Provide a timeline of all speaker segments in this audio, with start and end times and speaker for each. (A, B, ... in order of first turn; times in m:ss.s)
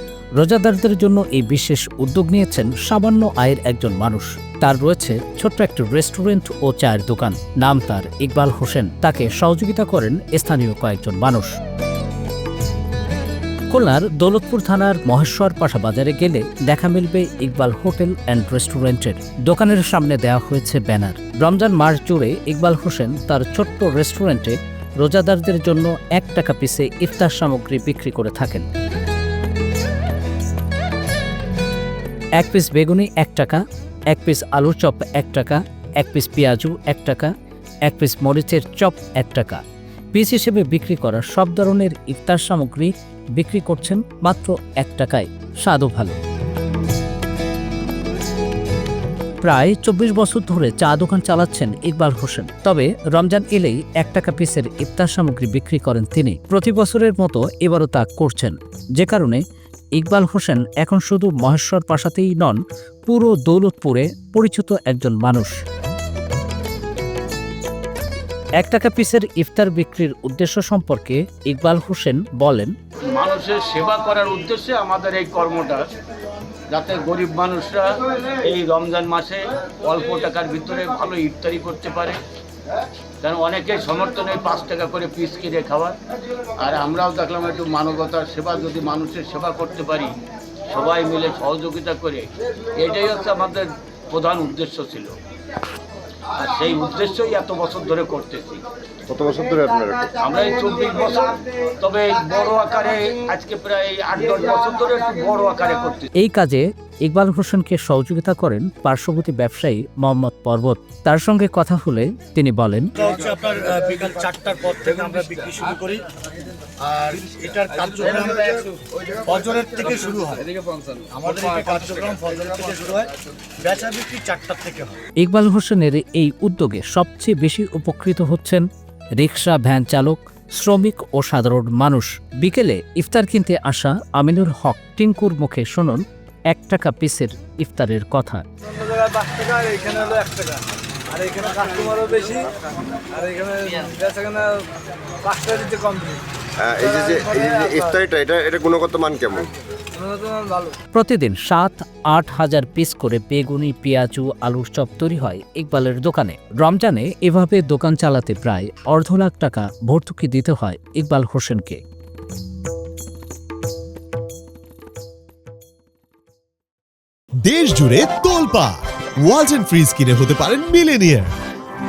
0:00.4-0:11.6 A
0:13.7-0:28.7 A
0:32.4-0:37.3 A
0:37.8-0:39.6 A
0:40.1-0:46.2 A
0:49.4-0:59.4 A
1:00.0-1:05.6 A
1:08.6-1:12.7 A
1:13.0-1:15.8 B
1:16.7-1:22.2 B
1:23.2-1:26.0 B
1:26.6-1:30.1 B
1:30.7-1:35.2 B
1:36.3-1:38.6 B
1:39.1-1:40.1 C
1:40.2-1:46.1 B
1:46.2-1:52.9 A
1:53.0-1:56.0 D
1:56.8-2:00.5 D
2:00.5-2:01.1 E
2:01.1-2:05.0 D
2:05.2-2:08.6 A
2:09.2-2:18.4 A
2:18.6-2:22.5 E
2:23.1-2:24.7 E
2:25.2-2:26.2 E
2:26.6-2:29.5 C
2:26.8-2:27.9 E
2:29.9-2:30.8 E
2:30.9-2:41.8 A
2:47.4-2:51.3 F